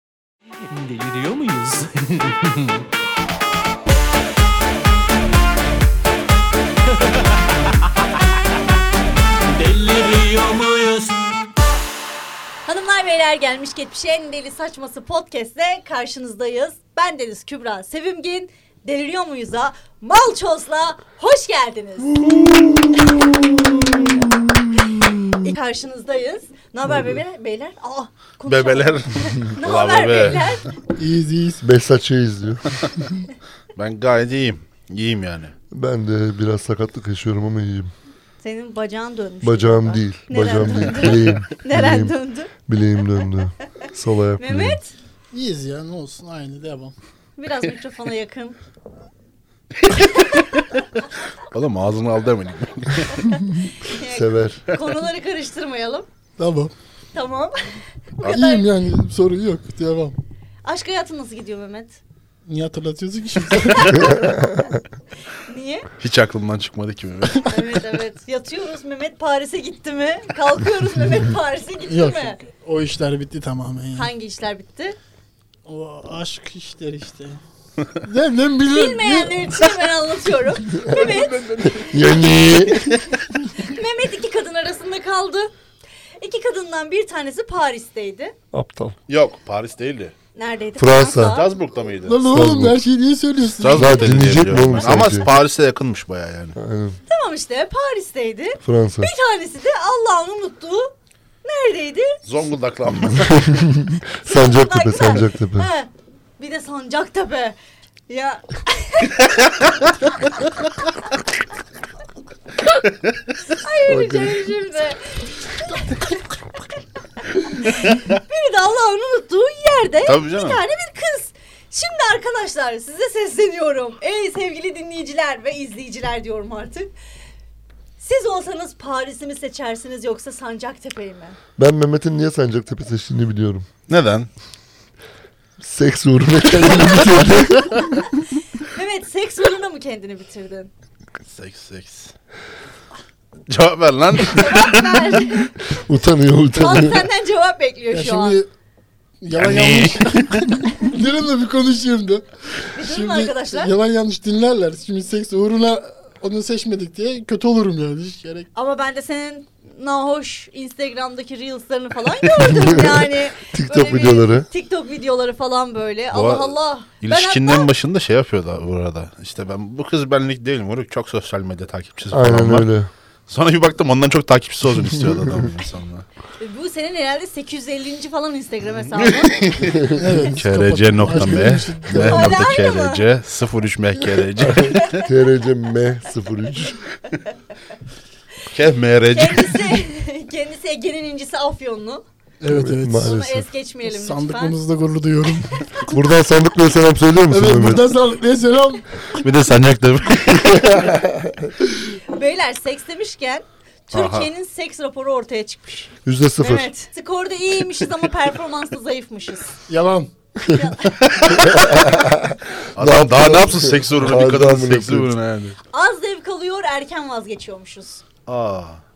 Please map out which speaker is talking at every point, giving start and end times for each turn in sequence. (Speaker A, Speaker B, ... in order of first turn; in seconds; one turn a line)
Speaker A: 0.7-1.9
Speaker A: 9.6-11.2
Speaker B: 12.7-22.2
Speaker C: 22.2-23.2
Speaker B: 25.4-30.7
Speaker D: 28.5-30.5
Speaker E: 30.9-31.6
Speaker C: 31.6-32.8
Speaker D: 33.8-35.5
Speaker C: 35.7-37.9
Speaker B: 38.4-42.5
Speaker C: 39.4-44.8
Speaker B: 44.4-45.0
Speaker E: 45.3-46.9
Speaker B: 47.4-48.6
Speaker D: 49.8-50.7
Speaker B: 50.3-50.6
Speaker D: 51.5-53.2
Speaker B: 53.2-56.1
Speaker C: 54.0-54.6
Speaker E: 56.4-56.7
Speaker B: 57.1-57.6
Speaker B: 58.2-58.7
Speaker E: 58.3-60.2
Speaker B: 60.6-62.0
Speaker E: 62.5-64.2
Speaker B: 63.7-64.5
Speaker C: 64.2-64.6
Speaker B: 65.4-65.9
Speaker D: 66.0-67.5
Speaker B: 67.5-72.4
Speaker E: 71.9-74.1
Speaker B: 74.0-75.0
Speaker E: 75.6-77.4
Speaker E: 78.0-79.4
Speaker B: 78.7-81.9
Speaker C: 80.8-83.0
Speaker D: 80.9-82.2
Speaker B: 83.5-85.5
Speaker B: 86.2-88.3
Speaker C: 88.5-89.0
Speaker D: 89.1-90.1
Speaker B: 90.3-91.5
Speaker C: 90.8-91.4
Speaker D: 91.2-92.2
Speaker E: 92.0-94.2
Speaker C: 92.3-92.8
Speaker D: 93.6-96.6
Speaker C: 93.7-95.3
Speaker C: 96.6-97.0
Speaker B: 97.1-100.9
Speaker C: 98.6-99.1
Speaker B: 101.4-102.2
Speaker D: 102.2-103.7
Speaker C: 103.2-105.7
Speaker B: 104.2-107.6
Speaker B: 108.1-109.3
Speaker B: 113.5-116.2
Speaker C: 113.9-114.4
Speaker B: 117.5-126.9
Speaker D: 120.0-120.6
Speaker B: 128.0-131.4
Speaker C: 131.6-133.7
Speaker D: 133.9-134.3
Speaker C: 135.6-137.9
Speaker B: 138.2-140.7
Speaker D: 141.3-142.1
Speaker D: 143.5-145.2
Speaker B: 144.3-145.5
Speaker C: 145.7-147.1
Speaker B: 146.5-148.4
Speaker E: 147.9-148.5
Speaker E: 149.2-158.5
Speaker D: 149.3-150.4
Speaker B: 152.7-153.7
Speaker B: 158.5-167.7
Speaker C: 162.4-164.5
Speaker D: 166.1-172.7
Speaker C: 172.1-172.9
Speaker D: 173.3-176.0
Speaker B: 176.4-179.4
Speaker D: 178.8-185.1
Speaker C: 179.6-180.2
Speaker E: 179.9-182.5
Speaker B: 181.9-183.0
Speaker C: 184.4-186.8
Speaker D: 188.5-189.8
Speaker B: 189.1-192.0
Speaker E: 192.4-193.1
Speaker C: 192.5-193.5
Speaker B: 192.9-194.6
Speaker E: 193.8-195.8
Speaker C: 195.9-197.8
Speaker E: 197.3-199.1
Speaker D: 199.2-200.9
Speaker C: 200.3-201.5
Speaker B: 202.1-209.6
Speaker D: 203.9-204.3
Speaker C: 206.0-206.7
Speaker E: 209.7-210.1
Speaker B: 210.5-211.0
Speaker D: 210.8-211.6
Speaker C: 211.3-215.1
Speaker D: 212.7-215.6
Speaker B: 215.7-218.0
Speaker D: 218.3-218.8